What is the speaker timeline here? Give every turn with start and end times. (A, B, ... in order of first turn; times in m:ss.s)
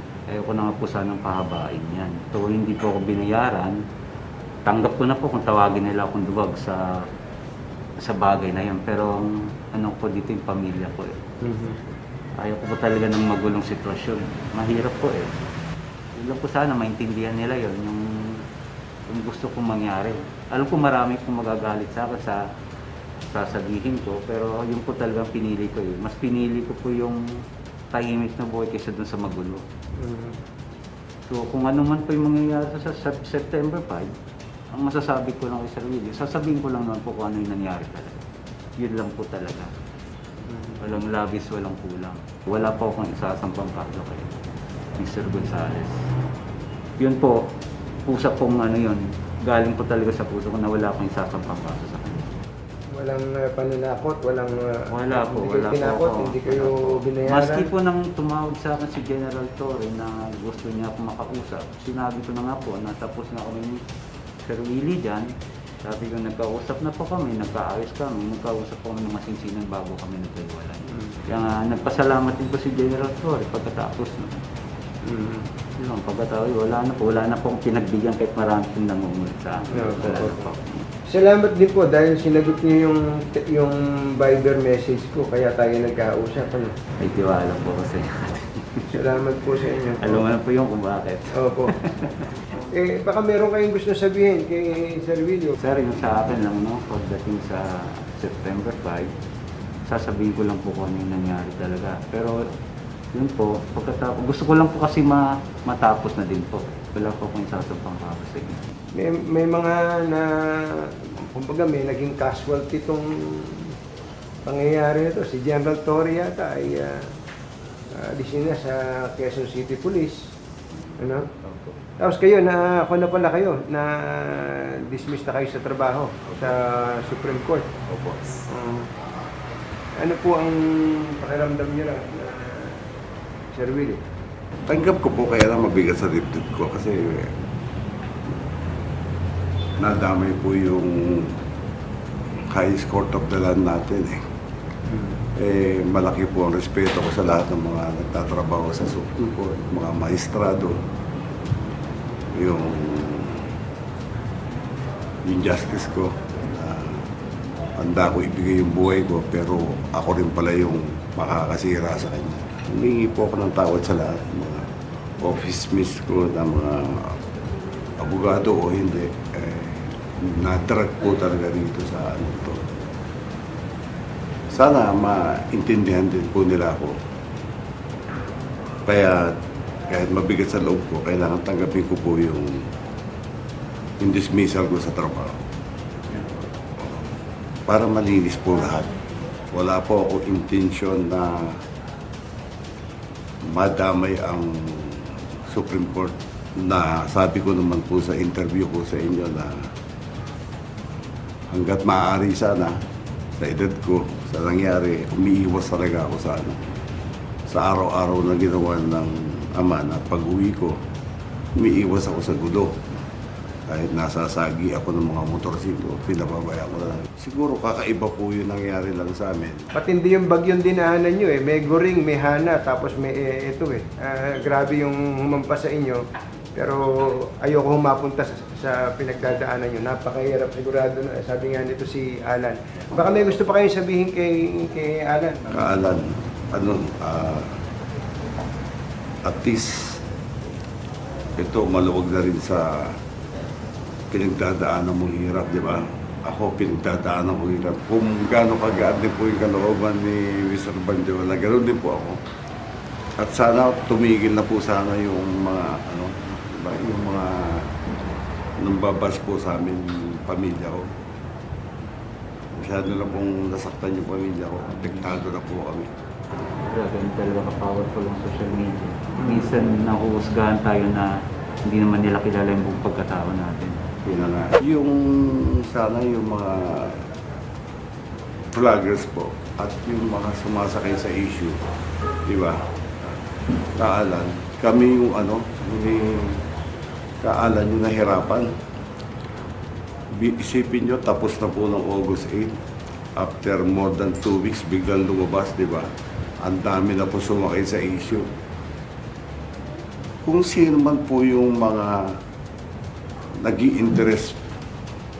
0:00.3-0:03.8 A
0:04.6-0:06.8 A
0:08.0-0:11.2 A
0:11.4-0:11.8 B
0:12.4-0:15.3 A
0:16.2-0:18.4 A
0:19.1-0:22.4 A
0:23.3-0:27.2 A
0:27.9-0:29.6 A
0:30.0-0:30.4 B
0:31.3-0:34.1 A
0:34.7-0:38.2 A
0:38.8-0:39.7 A
0:40.4-0:40.8 B
0:40.8-0:44.3 A
0:45.0-0:45.9 A
0:47.0-0:47.4 A
0:48.1-0:52.2 A
0:52.9-0:57.7 B
0:54.9-1:03.8 A
1:04.4-1:05.3 A
1:05.8-1:14.4 A
1:10.9-1:11.2 B
1:15.0-1:15.5 B
1:15.8-1:20.8 A
1:19.7-1:20.5 B
1:21.1-1:26.8 B
1:27.0-1:29.1 A
1:28.9-1:30.2 B
1:30.0-1:32.4 A
1:31.3-1:31.7 B
1:32.7-1:35.5 B
1:35.6-1:39.1 A
1:39.9-1:42.5 A
1:43.1-1:48.6 A
1:49.0-1:53.7 B
1:54.4-1:57.1 B
1:57.9-2:00.3 B
2:01.0-2:01.3 B
2:01.4-2:01.8 C
2:02.0-2:07.7 B
2:06.3-2:06.6 C
2:07.9-2:08.5 C
2:08.5-2:08.9 B
2:10.0-2:12.9 B
2:13.5-2:14.0 B
2:14.7-2:17.4 C
2:19.8-2:21.4 C
2:22.4-2:24.2 C
2:24.9-2:25.2 B
2:25.3-2:30.8 C
2:32.3-2:33.5 C
2:35.2-2:37.1 C
2:37.8-2:47.2 C
2:48.0-2:52.6 C
2:54.5-2:57.0 C
2:58.8-2:59.3 C
2:59.9-3:02.7 C
3:04.0-3:05.4 C
3:06.8-3:07.1 C
3:07.7-3:08.9 C
3:09.5-3:11.6 C
3:13.5-3:19.7 C
3:21.5-3:22.8 C
3:23.4-3:26.6 C
3:27.5-3:30.8 C
3:31.6-3:32.8 C
3:33.7-3:39.7 C
3:39.7-3:55.6 B
3:55.5-3:57.6 C
3:59.2-4:00.0 C
4:01.4-4:03.0 C
4:04.1-4:12.2 C
4:13.2-4:17.7 C
4:18.6-4:20.9 C
4:22.5-4:25.9 C
4:26.7-4:31.1 A
4:29.2-4:29.5 B
4:31.7-4:33.8 A
4:34.0-4:37.0 C
4:38.5-4:41.6 C
4:42.2-4:42.6 C
4:43.7-4:46.4 C
4:47.2-4:48.5 C
4:50.1-4:52.6 C
4:53.2-4:55.9 C
4:56.4-4:58.3 C
5:00.2-5:02.2 C
5:03.4-5:04.4 C